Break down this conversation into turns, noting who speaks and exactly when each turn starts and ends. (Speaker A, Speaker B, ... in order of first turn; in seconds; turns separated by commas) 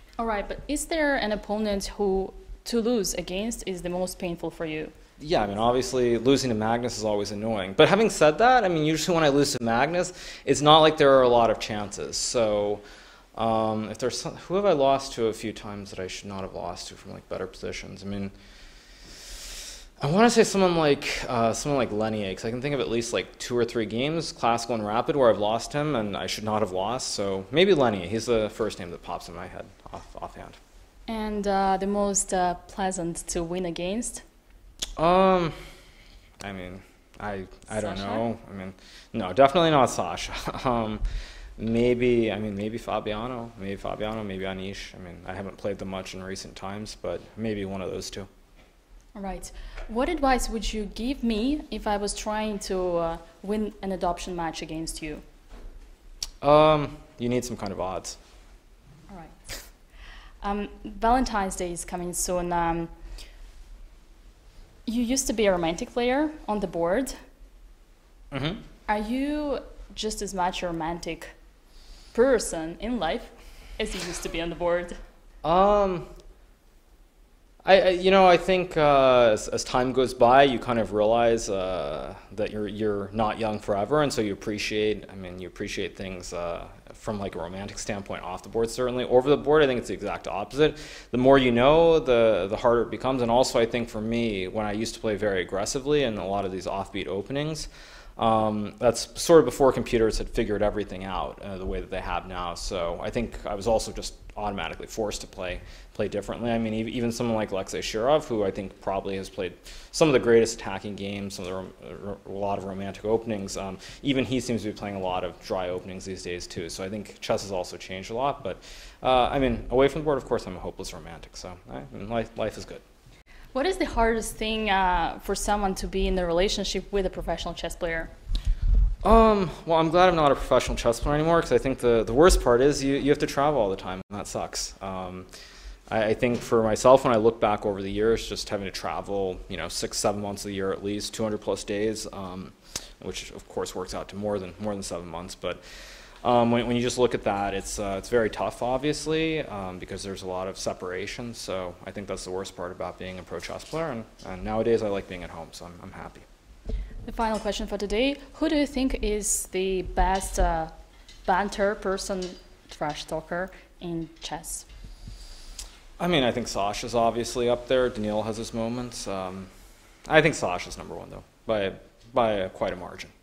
Speaker A: 0.2-4.9, Speaker B: 5.2-12.8, Speaker B: 13.3-18.3, Speaker B: 20.0-30.6, Speaker A: 31.1-34.2, Speaker B: 35.0-35.5, Speaker B: 36.4-41.0, Speaker A: 37.7-38.2, Speaker B: 41.6-48.3, Speaker A: 49.1-55.2, Speaker B: 56.4-58.2, Speaker A: 59.1-59.4, Speaker A: 60.4-62.9, Speaker A: 64.8-67.1, Speaker B: 68.3-68.6, Speaker A: 68.9-71.3, Speaker A: 72.1-75.0, Speaker B: 75.4-76.1, Speaker B: 77.6-122.8, Speaker A: 123.5-128.1, Speaker B: 129.0-135.3, Speaker B: 135.9-145.6, Speaker B: 146.2-156.2, Speaker A: 157.1-160.7, Speaker A: 161.2-164.7, Speaker B: 166.0-169.5, Speaker B: 170.1-173.1